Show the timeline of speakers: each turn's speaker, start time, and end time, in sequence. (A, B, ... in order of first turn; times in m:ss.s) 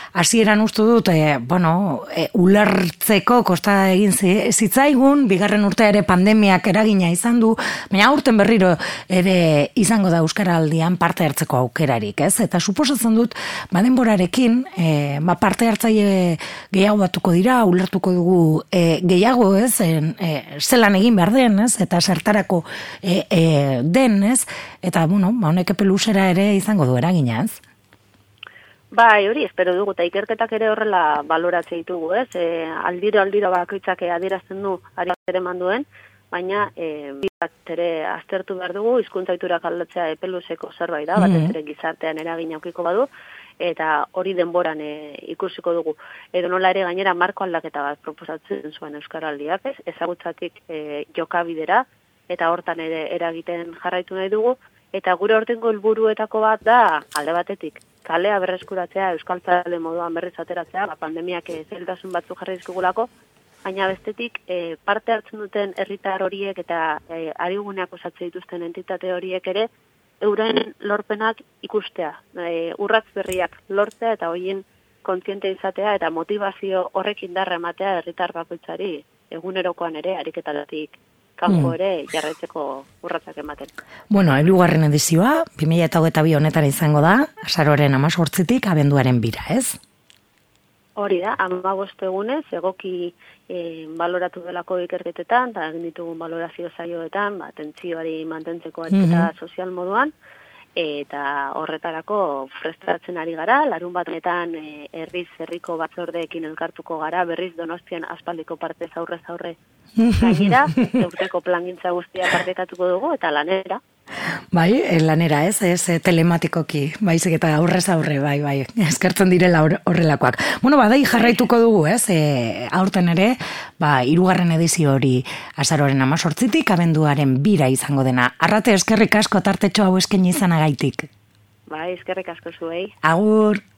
0:00.2-0:27.6 A
0:28.9-0:43.1 B
0:41.2-0:41.5 A
0:43.6-1:03.1 B
1:03.6-1:09.7 B
1:10.2-1:23.7 B
1:21.5-1:21.8 A
1:24.1-1:29.8 A
1:31.0-1:40.1 B
1:38.9-1:39.3 A
1:40.8-1:49.6 B
1:50.0-1:51.0 A
1:50.2-1:53.8 B
1:54.5-2:11.1 A
2:01.1-2:01.5 B
2:11.7-2:12.9 B
2:13.0-2:13.6 A